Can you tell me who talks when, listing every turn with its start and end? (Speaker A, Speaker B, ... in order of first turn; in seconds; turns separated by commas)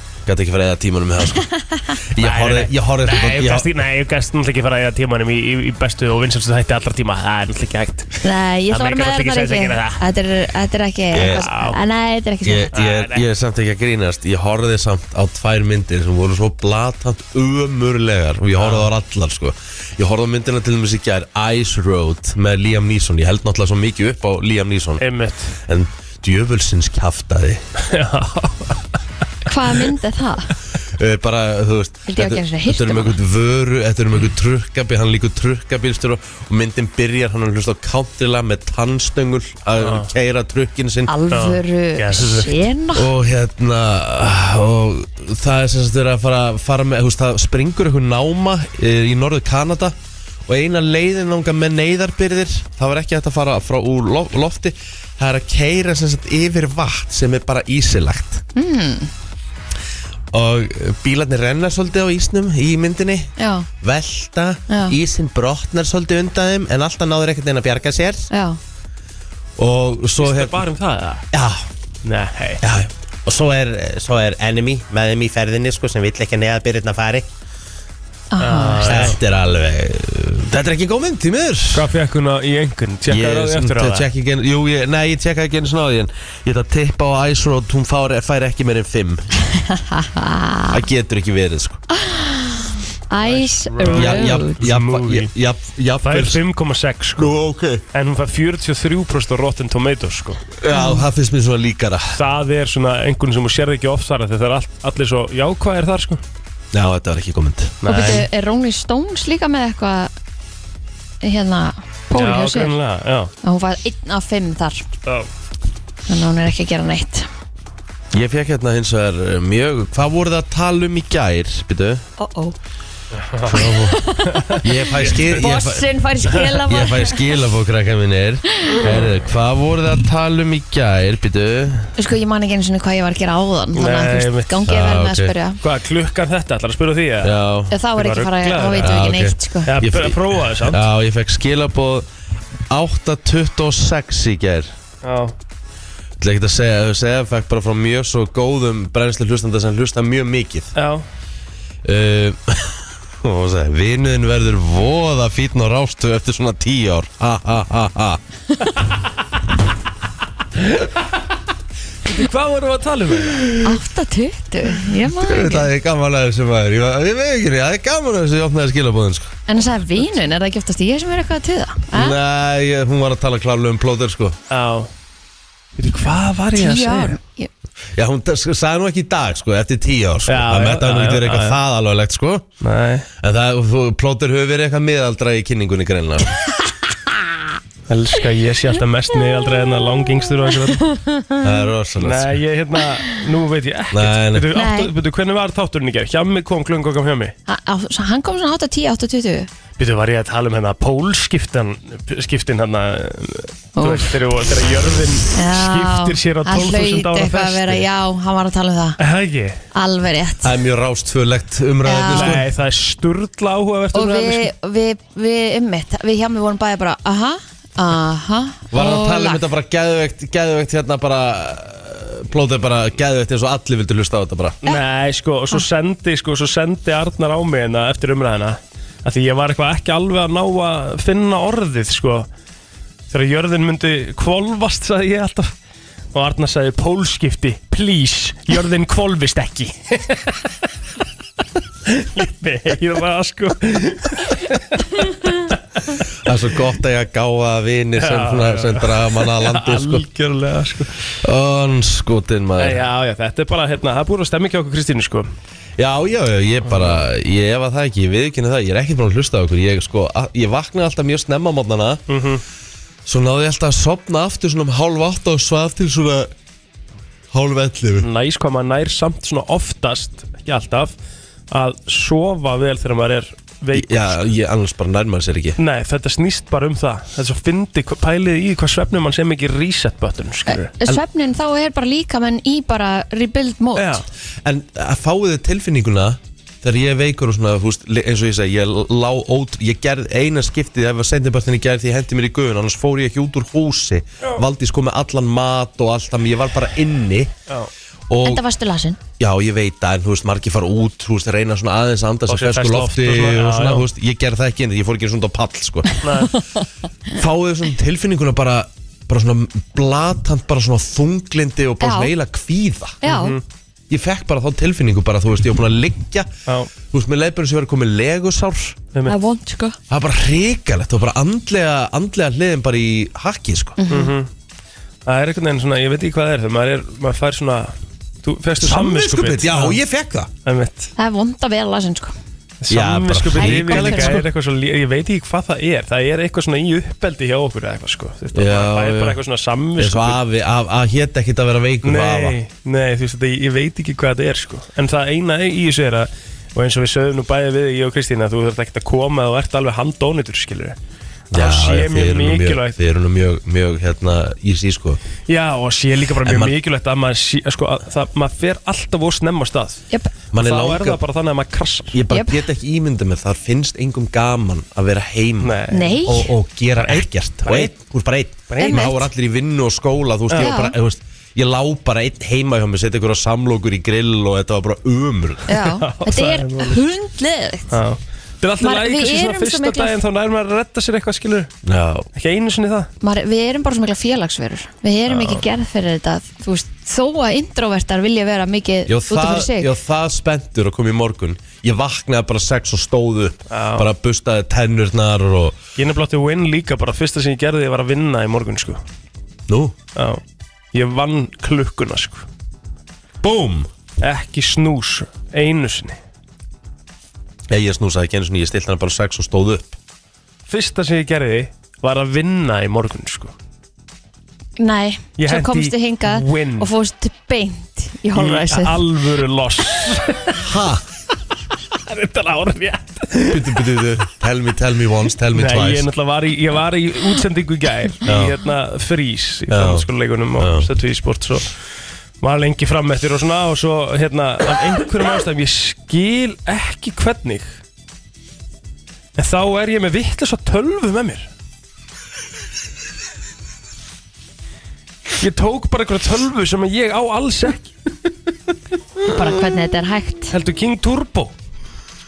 Speaker A: 0.2-1.4, Speaker B: 1.5-1.9, Speaker A: 2.1-3.7, Speaker C: 2.2-8.2, Speaker B: 8.2-12.7, Speaker C: 8.7-10.0, Speaker A: 11.1-11.5, Speaker C: 11.2-11.8, Speaker A: 12.4-25.0, Speaker C: 12.7-13.2, Speaker C: 18.6-18.9, Speaker C: 25.0-25.5, Speaker A: 25.7-27.6, Speaker C: 27.8-28.8, Speaker B: 29.4-30.5, Speaker A: 30.9-41.1, Speaker B: 32.1-33.2, Speaker C: 39.8-40.1, Speaker B: 41.1-43.1, Speaker C: 41.3-42.6, Speaker A: 42.9-50.0, Speaker A: 50.5-58.4, Speaker B: 58.5-59.1, Speaker A: 60.3-68.3, Speaker B: 63.4-63.7, Speaker B: 64.7-65.0, Speaker B: 68.3-68.6, Speaker A: 69.6-70.6, Speaker C: 70.2-71.2, Speaker A: 71.3-71.7, Speaker C: 72.0-72.6, Speaker A: 72.6-77.3, Speaker B: 78.3-79.1, Speaker C: 78.4-79.2, Speaker A: 78.8-81.9, Speaker C: 81.7-84.1, Speaker A: 83.1-89.3, Speaker B: 89.5-90.8, Speaker A: 90.7-91.8, Speaker B: 92.0-94.6, Speaker C: 93.2-95.3, Speaker A: 93.8-96.4, Speaker C: 96.0-97.3, Speaker A: 97.2-97.8, Speaker C: 97.9-100.4, Speaker A: 100.6-102.2, Speaker B: 100.7-101.0, Speaker C: 102.1-106.2, Speaker A: 106.7-107.8, Speaker C: 107.8-108.3, Speaker B: 107.8-110.1, Speaker B: 111.2-112.8, Speaker C: 112.1-113.3, Speaker B: 113.4-114.8, Speaker B: 116.1-117.3, Speaker A: 118.1-122.0, Speaker B: 122.2-122.5, Speaker C: 123.3-125.2, Speaker A: 123.5-123.9, Speaker B: 123.5-127.4, Speaker A: 124.6-125.9, Speaker A: 126.5-131.9, Speaker B: 128.5-128.8, Speaker B: 132.0-135.6, Speaker C: 133.7-134.7, Speaker A: 134.7-135.3, Speaker C: 135.6-137.4, Speaker A: 137.2-137.7, Speaker B: 137.7-139.7, Speaker C: 138.0-139.1, Speaker A: 138.8-142.1, Speaker C: 139.7-140.8, Speaker A: 142.7-144.7, Speaker C: 145.0-145.3, Speaker A: 146.2-150.7, Speaker C: 150.7-151.0, Speaker A: 151.8-158.2, Speaker C: 160.7-161.1, Speaker C: 162.0-163.6, Speaker B: 163.6-165.7, Speaker A: 165.2-169.3, Speaker B: 169.5-172.2, Speaker A: 171.9-174.3, Speaker C: 174.5-174.9, Speaker C: 175.8-177.2, Speaker B: 176.6-177.5, Speaker A: 178.0-182.5, Speaker C: 180.3-181.6, Speaker C: 182.6-183.1, Speaker A: 183.2-186.4, Speaker C: 187.9-190.8, Speaker B: 190.5-191.4, Speaker A: 191.4-192.4, Speaker C: 192.0-197.3, Speaker A: 193.9-194.5, Speaker B: 194.5-194.9, Speaker B: 197.5-199.5, Speaker C: 199.8-207.8, Speaker B: 203.8-204.1, Speaker B: 205.3-209.0, Speaker C: 209.0-209.6, Speaker B: 209.7-210.5, Speaker A: 210.4-212.5, Speaker B: 211.8-212.4, Speaker C: 212.1-214.5, Speaker B: 213.9-219.4, Speaker A: 218.7-224.6, Speaker C: 224.6-232.3, Speaker C: 233.1-235.5, Speaker C: 236.1-240.5, Speaker C: 241.8-245.6, Speaker A: 246.2-250.0, Speaker C: 248.0-250.9, Speaker A: 251.2-252.8, Speaker C: 252.6-255.3, Speaker A: 255.8-262.0, Speaker C: 256.6-257.0, Speaker C: 262.1-262.4, Speaker A: 263.1-266.3, Speaker A: 267.3-268.1, Speaker C: 268.0-270.9, Speaker C: 271.5-274.2, Speaker A: 273.7-275.6, Speaker C: 275.6-280.7, Speaker B: 280.5-284.0, Speaker C: 283.8-284.1, Speaker A: 284.4-297.3, Speaker A: 298.1-298.4, Speaker B: 298.2-299.0, Speaker A: 299.2-305.9, Speaker C: 302.3-303.9, Speaker C: 306.0-306.3, Speaker B: 306.2-306.6, Speaker A: 307.1-313.0, Speaker B: 311.8-312.1, Speaker B: 313.0-313.4, Speaker C: 313.0-313.4, Speaker A: 313.9-316.3, Speaker A: 316.9-318.8, Speaker B: 319.1-319.8, Speaker A: 319.9-323.8, Speaker B: 323.8-324.1, Speaker C: 323.9-324.3, Speaker C: 325.1-329.8, Speaker A: 328.6-330.3, Speaker C: 330.4-330.9, Speaker B: 331.0-332.1, Speaker C: 332.6-340.2, Speaker A: 332.7-334.3, Speaker B: 333.4-334.2, Speaker A: 338.3-339.2, Speaker A: 339.8-342.4, Speaker C: 341.8-350.8, Speaker A: 351.3-355.0, Speaker C: 351.3-352.8, Speaker C: 355.3-359.8, Speaker A: 356.2-356.5, Speaker A: 360.3-361.0, Speaker C: 360.3-362.0, Speaker A: 361.9-375.5, Speaker B: 362.1-362.4, Speaker C: 365.4-366.0, Speaker B: 365.7-366.3, Speaker C: 366.8-367.8, Speaker C: 368.5-368.9, Speaker B: 368.6-369.0, Speaker B: 370.3-370.8, Speaker B: 375.5-377.8, Speaker C: 375.5-376.8, Speaker C: 377.7-381.5, Speaker B: 378.6-379.9, Speaker A: 381.6-382.1, Speaker C: 382.1-382.9, Speaker B: 383.0-389.7, Speaker C: 385.1-385.4, Speaker A: 388.9-395.6, Speaker C: 393.5-393.9, Speaker C: 395.8-398.8, Speaker A: 399.5-399.8, Speaker C: 399.9-400.2, Speaker C: 400.7-402.2, Speaker A: 403.2-403.7, Speaker C: 404.0-406.0, Speaker A: 407.5-409.8, Speaker C: 410.5-413.3, Speaker B: 414.6-418.8, Speaker C: 415.2-416.7, Speaker C: 418.1-420.5, Speaker A: 420.4-420.8, Speaker C: 421.7-423.7, Speaker A: 423.3-425.9, Speaker C: 425.3-431.5, Speaker A: 428.1-428.3, Speaker A: 429.5-429.9, Speaker A: 430.4-430.7, Speaker C: 432.2-437.6, Speaker C: 439.1-441.3, Speaker C: 445.2-447.7, Speaker B: 449.1-450.3, Speaker C: 450.3-451.3